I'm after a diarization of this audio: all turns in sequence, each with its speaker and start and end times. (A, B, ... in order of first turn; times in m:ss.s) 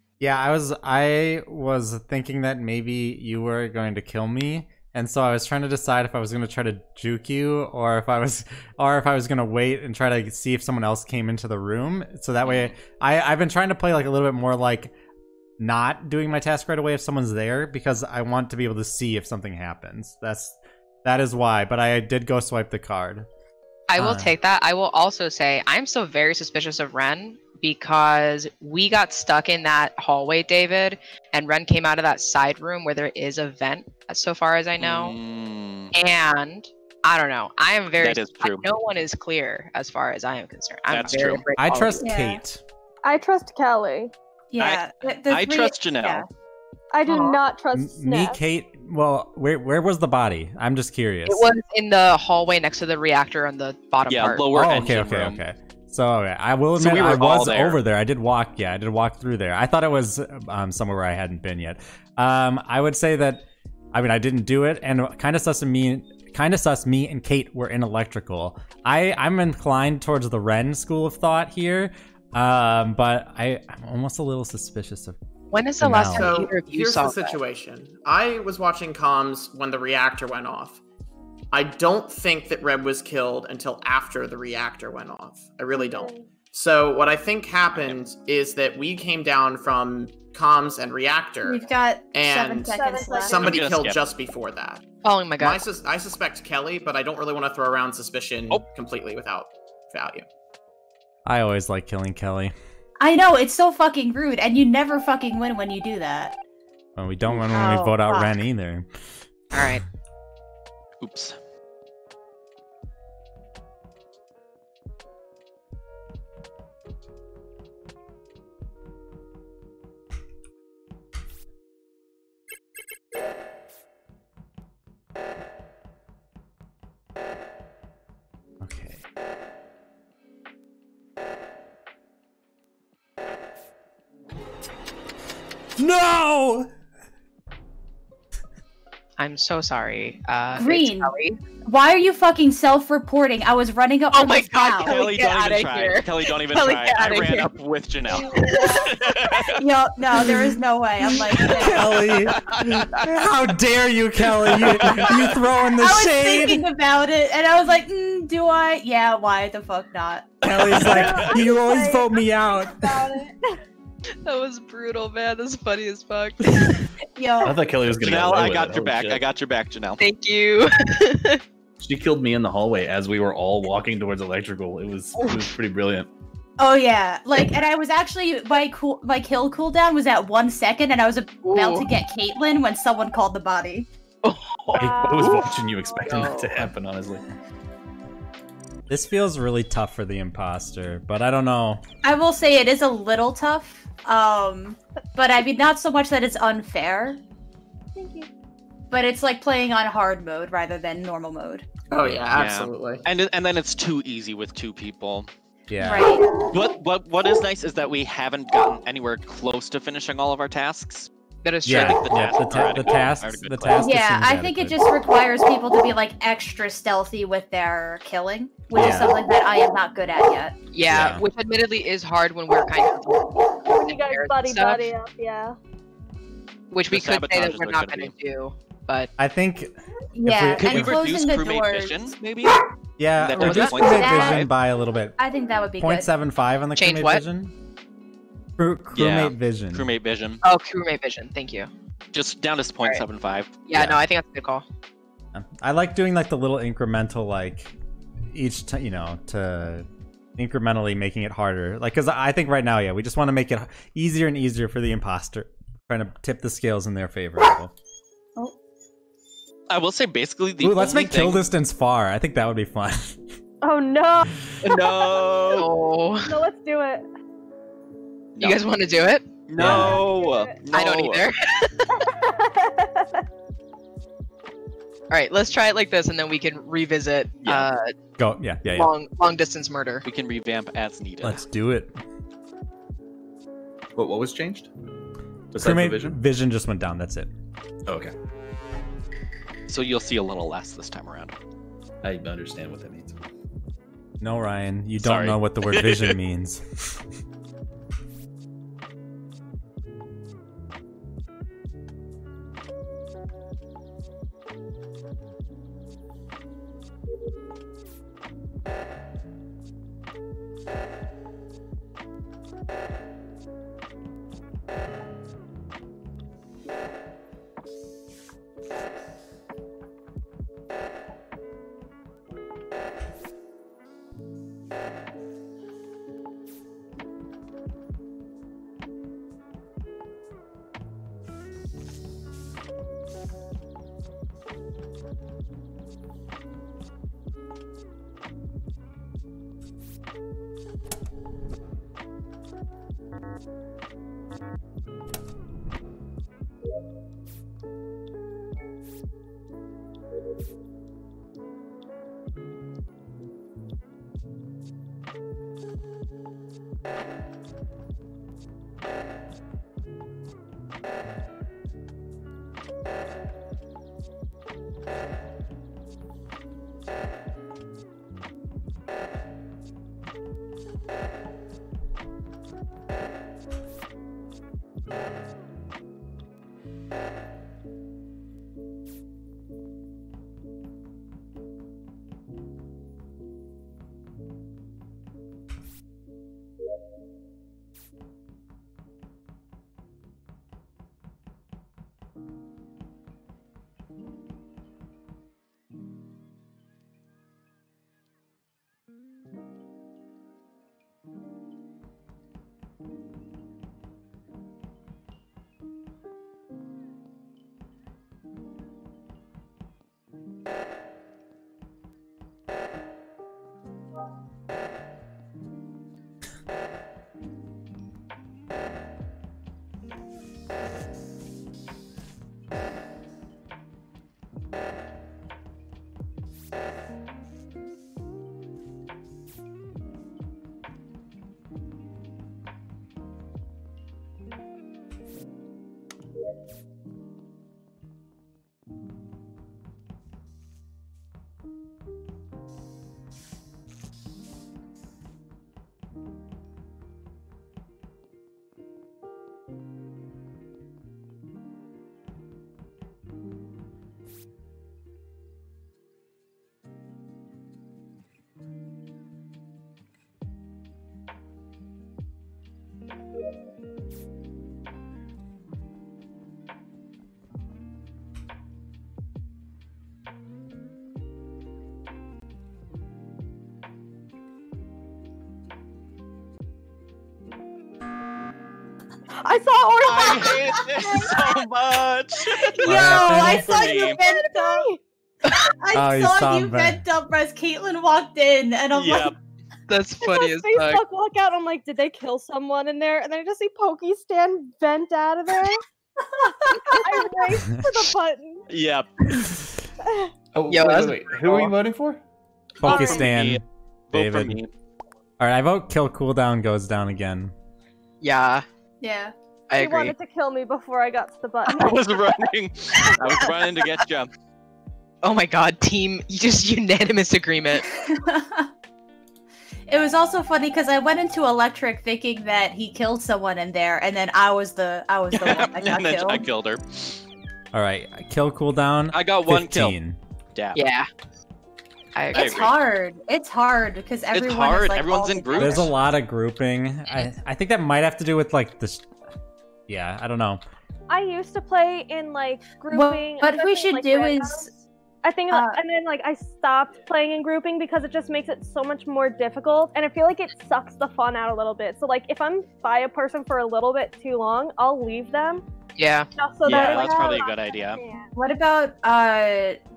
0:00.2-0:14.9 A
0:12.4-0:12.7 B
0:15.6-0:23.3 A
0:23.9-0:35.2 C
0:24.0-0:24.3 A
0:34.8-0:35.9 B
0:35.9-0:42.1 C
0:38.0-0:38.7 B
0:40.9-0:41.4 B
0:41.6-0:42.6 A
0:42.0-0:42.4 D
0:43.0-0:44.1 E
0:44.5-0:46.3 D
0:44.6-0:46.3 B
0:46.9-0:48.4 E
0:47.7-0:51.5 A
0:51.3-0:54.5 C
0:54.1-0:55.4 B
0:54.5-1:15.2 A
0:56.8-0:57.8 B
1:15.5-1:17.4 C
1:15.8-1:16.4 A
1:16.1-1:20.8 F
1:21.5-1:34.8 F
1:25.7-1:26.3 E
1:27.7-1:28.0 B
1:31.4-1:33.6 D
1:32.7-1:33.5 E
1:33.4-1:34.0 B
1:35.0-1:35.6 C
1:35.4-1:40.3 F
1:41.3-1:42.5 A
1:43.0-1:46.4 D
1:47.0-1:48.9 A
1:47.3-1:48.4 D
1:49.5-1:49.8 C
1:51.0-1:51.4 B
2:08.6-2:09.0 A
2:15.8-2:16.7 A
2:19.2-2:21.4 C
2:20.6-2:25.0 D
2:24.1-2:27.5 C
2:24.8-2:29.6 B
2:28.1-2:28.9 E
2:28.2-2:28.8 D
2:28.3-2:28.9 C
2:29.6-2:32.0 D
2:30.1-2:31.6 C
2:31.5-2:36.6 A
2:32.3-2:33.1 B
2:34.4-2:35.4 B
2:35.8-2:40.4 D
2:40.4-2:43.2 A
2:40.8-2:43.6 E
2:44.2-2:46.9 C
2:47.2-2:47.6 D
2:47.4-2:49.2 G
2:48.0-2:50.0 B
2:50.0-2:51.4 C
2:51.8-2:56.1 G
2:55.2-2:55.6 C
2:56.6-3:03.9 D
3:01.4-3:01.9 C
3:04.2-3:06.7 C
3:04.7-3:07.3 G
3:04.8-3:06.0 E
3:08.9-3:11.8 A
3:12.0-3:17.2 D
3:18.0-3:18.3 E
3:18.9-3:21.7 D
3:21.9-3:23.0 F
3:22.3-3:25.3 B
3:25.7-3:26.2 A
3:25.8-3:26.4 D
3:26.5-3:31.1 B
3:31.4-3:32.0 C
3:31.6-3:34.8 A
3:31.7-3:33.9 B
3:33.8-3:40.6 D
3:38.7-3:39.2 A
3:40.7-3:44.9 C
3:40.9-3:41.2 B
3:40.9-3:41.2 A
3:43.7-3:45.6 E
3:46.7-3:49.1 C
3:46.9-3:48.1 B
3:49.2-3:51.2 A
3:50.2-3:52.2 D
3:50.6-3:52.6 B
3:53.0-3:55.2 A
3:53.2-3:54.5 B
3:53.4-3:54.5 D
3:55.2-3:56.1 D
3:55.8-3:57.5 A
3:56.8-3:57.2 C
3:58.6-3:59.9 A
3:59.0-4:00.4 B
4:00.4-4:01.7 C
4:02.1-4:03.6 B
4:03.7-4:04.6 C
4:03.7-4:04.0 A
4:05.3-4:07.7 A
4:08.3-4:09.9 A
4:10.4-4:17.7 A
4:19.7-4:21.4 B
4:20.6-4:23.2 A
4:23.6-4:25.6 E
4:24.6-4:25.7 B
4:25.5-4:26.4 C
4:26.2-4:27.1 E
4:28.4-4:28.6 B
4:28.4-4:30.0 C
4:29.5-4:31.3 B
4:29.6-4:30.0 A
4:29.6-4:30.6 E
4:30.7-4:32.0 C
4:31.9-4:33.3 E
4:35.1-4:37.9 C
4:37.4-4:37.7 B
4:38.2-4:38.9 A
4:38.7-4:40.0 C
4:40.0-4:41.4 B
4:41.2-4:41.9 A
4:44.0-4:44.7 G
4:45.5-4:46.2 G
4:45.6-4:47.3 A
4:47.9-4:48.1 G
4:49.7-4:51.3 B
4:52.0-4:53.2 G
4:54.2-4:57.0 A
4:55.0-4:56.2 B
7:59.2-8:01.4 E
7:59.9-8:04.0 B
8:02.4-8:03.1 E
8:02.6-8:04.7 D
8:02.7-8:03.5 A
8:03.7-8:04.8 E
8:05.6-8:09.1 D
8:05.7-8:06.8 A
8:08.7-8:09.2 B
8:09.7-8:10.8 C
8:10.0-8:15.6 E
8:16.5-8:18.4 E
8:18.5-8:19.1 B
8:19.9-8:20.1 E
8:20.3-8:22.0 G
8:20.5-8:21.6 C
8:22.6-8:23.4 A
8:22.6-8:24.5 B
8:22.6-8:23.0 E
8:23.9-8:24.4 A
8:25.2-8:27.3 A
8:28.0-8:28.4 C
8:28.8-8:29.1 D
8:29.5-8:30.0 C
8:29.5-8:31.8 E
8:31.6-8:34.1 B
8:32.8-8:33.1 C
8:35.0-8:37.7 C
8:37.8-8:38.5 D
8:39.7-8:46.3 D
8:45.1-8:47.0 B
8:47.5-8:50.0 A
8:48.9-8:49.8 B
8:50.4-8:50.6 B
8:50.6-8:50.9 C
8:52.0-8:52.5 C
8:52.1-8:52.5 B
8:52.1-8:55.8 D
8:54.1-8:55.7 B
8:55.4-8:58.9 A
8:59.7-9:00.4 A
9:00.9-9:15.4 E
9:02.7-9:04.5 D
9:05.3-9:05.6 D
9:15.8-9:16.1 C
9:16.2-9:18.1 E
9:16.4-9:17.8 B
9:16.7-9:17.1 D
9:18.2-9:19.6 D